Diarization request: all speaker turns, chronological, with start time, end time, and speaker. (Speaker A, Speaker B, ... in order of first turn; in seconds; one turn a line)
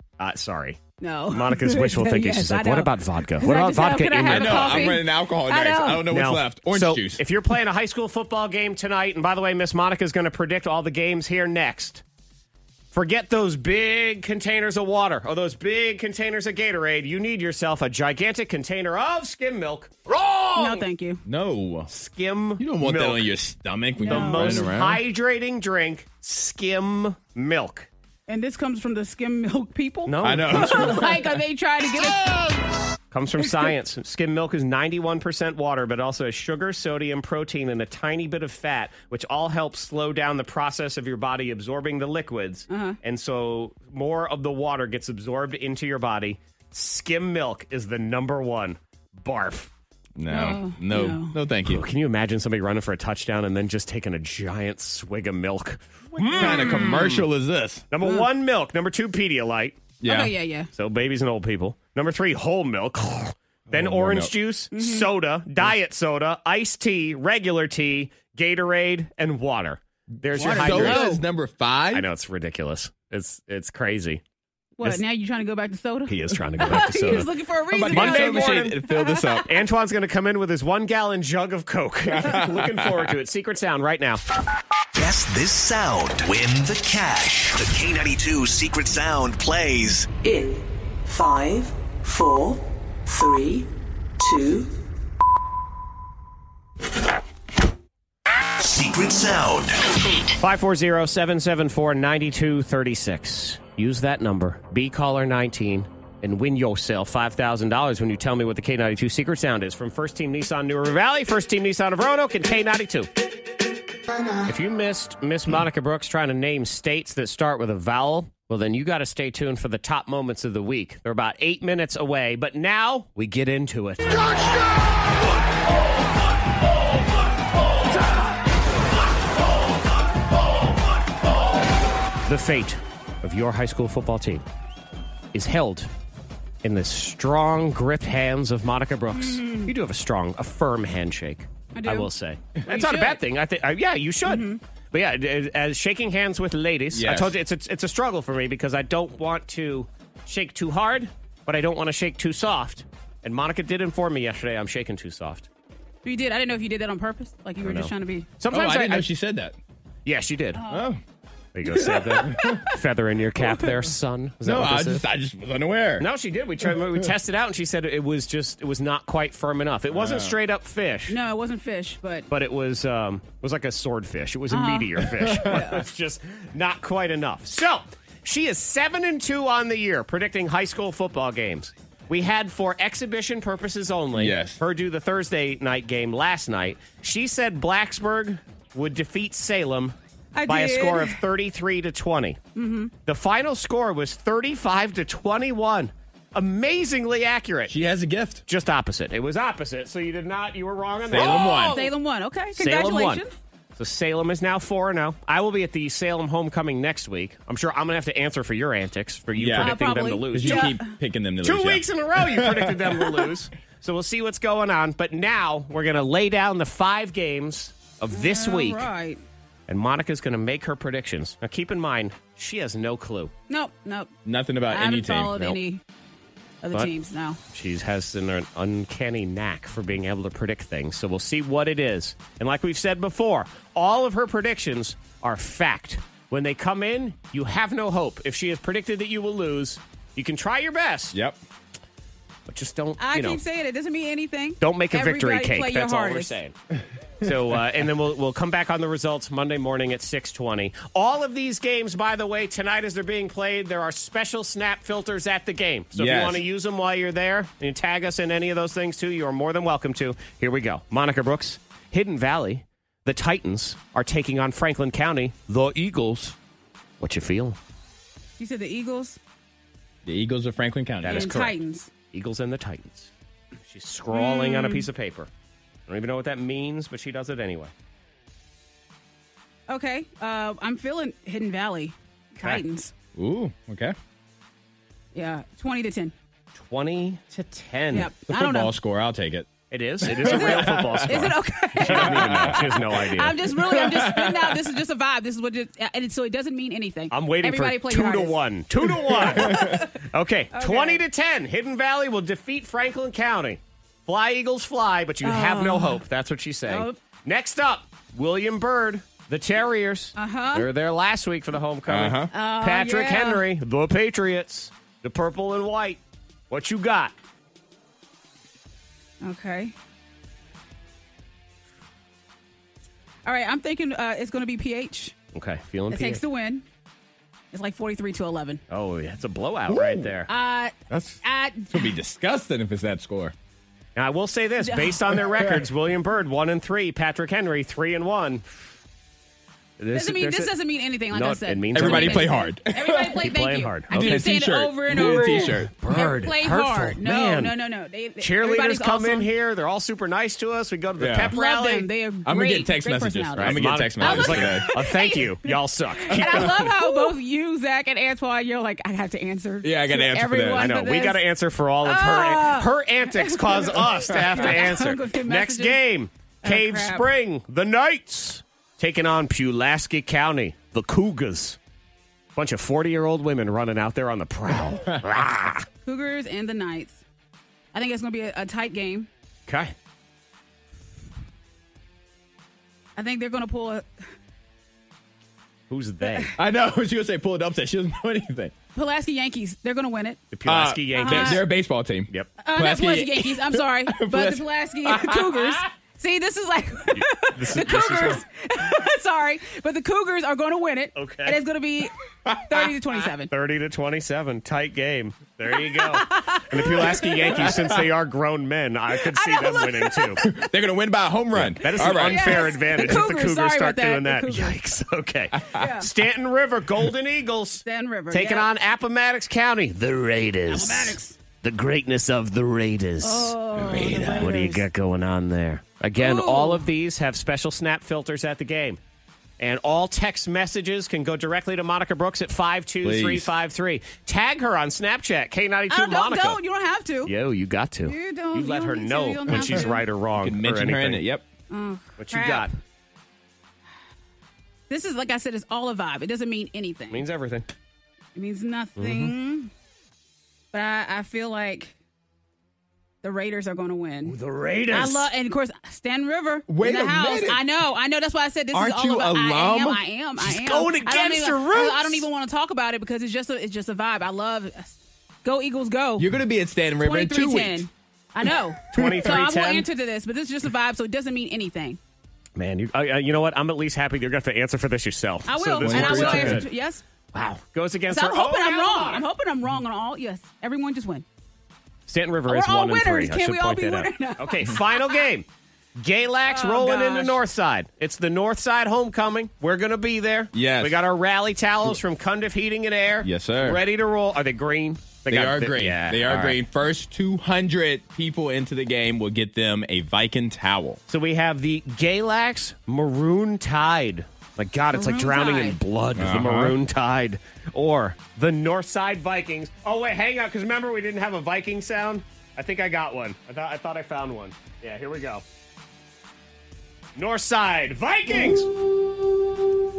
Speaker A: 0.2-0.8
Speaker B: 1.0-6.1
Speaker A: 1.3-5.0
Speaker C: 4.2-7.2
Speaker A: 6.1-12.0
Speaker A: 12.9-20.7
Speaker B: 20.5-21.2
Speaker C: 21.2-21.9
Speaker A: 21.9-23.3
Speaker C: 22.6-25.0
Speaker B: 24.0-24.7
Speaker A: 24.1-27.9
Speaker B: 28.3-32.2
Speaker A: 30.1-31.1
Speaker C: 30.2-31.2
Speaker A: 33.1-49.7
Speaker B: 42.7-43.0
Speaker C: 50.2-51.8
Speaker B: 50.3-51.4
Speaker A: 51.6-57.3
Speaker C: 56.2-57.8
Speaker B: 56.2-57.0
Speaker A: 57.9-59.8
Speaker C: 60.0-60.3
Speaker B: 60.0-60.7
Speaker A: 60.7-71.2
Speaker C: 63.7-64.3
Speaker B: 64.7-65.1
Speaker C: 70.3-72.0
Speaker B: 70.3-71.2
Speaker A: 71.9-74.2
Speaker B: 74.8-79.4
Speaker A: 76.1-77.3
Speaker C: 77.7-79.5
Speaker A: 77.9-78.8
Speaker A: 79.4-84.2
Speaker C: 82.1-82.9
Speaker D: 84.9-90.1
Speaker E: 90.2-90.5
Speaker E: 91.1-92.6
Speaker E: 93.1-93.6
Speaker E: 94.2-94.7
Speaker D: 98.6-99.8
Speaker A: 100.4-113.1
Speaker A: 114.5-124.4
Speaker A: 132.2-134.4
Speaker A: 135.3-135.9
Speaker A: 136.6-155.5
Speaker B: 139.1-139.7
Speaker B: 141.7-142.1
Speaker B: 142.7-143.2
Speaker B: 144.2-144.6
Speaker C: 146.9-147.3
Speaker B: 156.0-158.3
Speaker A: 157.6-159.1
Speaker C: 158.5-159.6
Speaker A: 160.0-160.6
Speaker B: 160.5-160.9
Speaker C: 160.7-161.0
Speaker A: 161.5-165.0
Speaker C: 161.7-162.6
Speaker B: 162.2-162.7
Speaker C: 164.4-166.1
Speaker A: 166.0-171.2
Speaker C: 169.9-170.3
Speaker B: 171.1-172.3
Speaker A: 172.3-189.9
Speaker B: 174.5-175.8
Speaker C: 175.3-175.6
Speaker C: 184.1-184.6
Speaker B: 190.3-191.2
Speaker A: 190.5-192.4
Speaker B: 192.6-192.9
Speaker A: 193.0-197.7
Speaker C: 197.7-198.4
Speaker A: 198.5-201.9
Speaker C: 201.1-201.9
Speaker B: 201.2-203.3
Speaker A: 202.6-203.2
Speaker A: 203.8-210.7
Speaker C: 209.4-209.7
Speaker B: 209.6-210.8
Speaker C: 210.3-213.3
Speaker A: 211.4-218.9
Speaker B: 218.1-219.2
Speaker A: 219.7-223.3
Speaker B: 223.5-224.1
Speaker C: 224.2-225.4
Speaker B: 224.7-225.8
Speaker B: 226.6-227.4
Speaker A: 227.5-241.2
Speaker C: 241.1-241.4
Speaker A: 242.5-243.4
Speaker B: 243.0-246.3
Speaker A: 244.6-246.5
Speaker A: 247.2-266.3
Speaker C: 255.9-256.4
Speaker A: 267.0-267.6
Speaker B: 268.4-269.2
Speaker C: 270.0-271.4
Speaker A: 271.0-271.5
Speaker B: 271.0-271.9
Speaker A: 272.1-275.3
Speaker B: 274.1-274.9
Speaker A: 275.9-277.7
Speaker B: 279.7-282.9
Speaker C: 283.1-283.9
Speaker B: 285.1-286.1
Speaker A: 286.5-288.1
Speaker B: 287.9-288.7
Speaker C: 288.3-289.5
Speaker A: 289.7-293.5
Speaker C: 290.0-291.3
Speaker B: 290.2-298.4
Speaker C: 291.8-292.7
Speaker C: 293.5-294.6
Speaker A: 297.1-317.1
Speaker B: 299.4-299.9
Speaker C: 299.4-299.8
Speaker B: 300.5-301.0
Speaker B: 305.2-306.0
Speaker B: 306.7-307.0
Speaker B: 310.1-310.7
Speaker C: 311.9-312.3
Speaker B: 312.3-313.4
Speaker B: 319.2-319.7
Speaker B: 323.2-325.1
Speaker A: 325.3-326.2
Speaker B: 325.9-326.6
Speaker B: 327.5-328.6
Speaker A: 328.7-330.3
Speaker C: 329.7-330.1
Speaker B: 330.3-331.9
Speaker C: 330.9-331.2
Speaker C: 331.7-333.3
Speaker A: 333.9-338.4
Speaker B: 334.6-335.2
Speaker A: 339.8-340.5
Speaker B: 339.9-349.3
Speaker A: 341.1-342.3
Speaker C: 341.7-343.2
Speaker A: 343.2-344.3
Speaker C: 343.9-345.7
Speaker A: 344.9-347.5
Speaker A: 348.2-351.9
Speaker C: 351.0-351.3
Speaker B: 351.3-361.2
Speaker C: 352.2-354.7
Speaker A: 353.4-356.9
Speaker C: 356.2-356.7
Speaker C: 359.6-360.7
Speaker A: 360.5-371.6
Speaker B: 361.8-365.8
Speaker B: 366.4-367.1
Speaker A: 372.3-375.6
Speaker B: 375.8-377.0
Speaker B: 377.7-379.1
Speaker A: 379.5-379.7
Speaker B: 383.0-383.9
Speaker A: 385.7-386.3
Speaker C: 386.4-388.5
Speaker B: 388.7-390.2
Speaker A: 390.3-391.4
Speaker C: 390.5-395.6
Speaker B: 390.9-391.4
Speaker B: 392.4-401.9
Speaker A: 396.9-398.2
Speaker A: 400.9-401.4
Speaker C: 402.2-402.7
Speaker B: 402.5-403.3
Speaker A: 403.3-410.2
Speaker B: 405.6-407.5
Speaker B: 408.9-410.3
Speaker C: 410.2-412.6
Speaker A: 411.3-428.8
Speaker B: 411.8-414.6
Speaker C: 415.4-415.7
Speaker B: 415.5-415.9
Speaker B: 417.6-418.5
Speaker B: 420.5-421.2
Speaker B: 423.0-424.6
Speaker C: 423.6-424.3
Speaker B: 426.0-426.6
Speaker A: 429.4-436.4
Speaker C: 432.8-433.3
Speaker B: 435.7-437.1
Speaker A: 437.1-441.0
Speaker B: 437.8-439.8
Speaker C: 440.2-441.2
Speaker B: 441.5-442.5
Speaker A: 442.0-442.5
Speaker B: 444.7-447.0
Speaker A: 446.9-447.5
Speaker B: 448.1-449.5
Speaker A: 448.8-449.1
Speaker B: 450.5-451.7
Speaker B: 453.0-454.1
Speaker A: 454.0-455.1
Speaker B: 454.7-466.1
Speaker C: 456.5-457.4
Speaker C: 458.5-459.8
Speaker A: 460.2-462.1
Speaker C: 466.0-467.6
Speaker B: 466.8-471.8
Speaker A: 468.7-469.7
Speaker C: 468.7-469.0
Speaker A: 472.4-476.5
Speaker B: 475.2-476.8
Speaker C: 475.6-476.4
Speaker A: 477.1-479.0
Speaker B: 477.9-481.0
Speaker A: 481.9-496.4
Speaker B: 482.3-485.0
Speaker B: 486.3-487.2
Speaker C: 490.3-490.8
Speaker C: 493.0-493.6
Speaker C: 495.1-500.8
Speaker A: 500.9-515.2
Speaker B: 504.7-505.6
Speaker C: 506.0-506.5
Speaker A: 517.0-518.5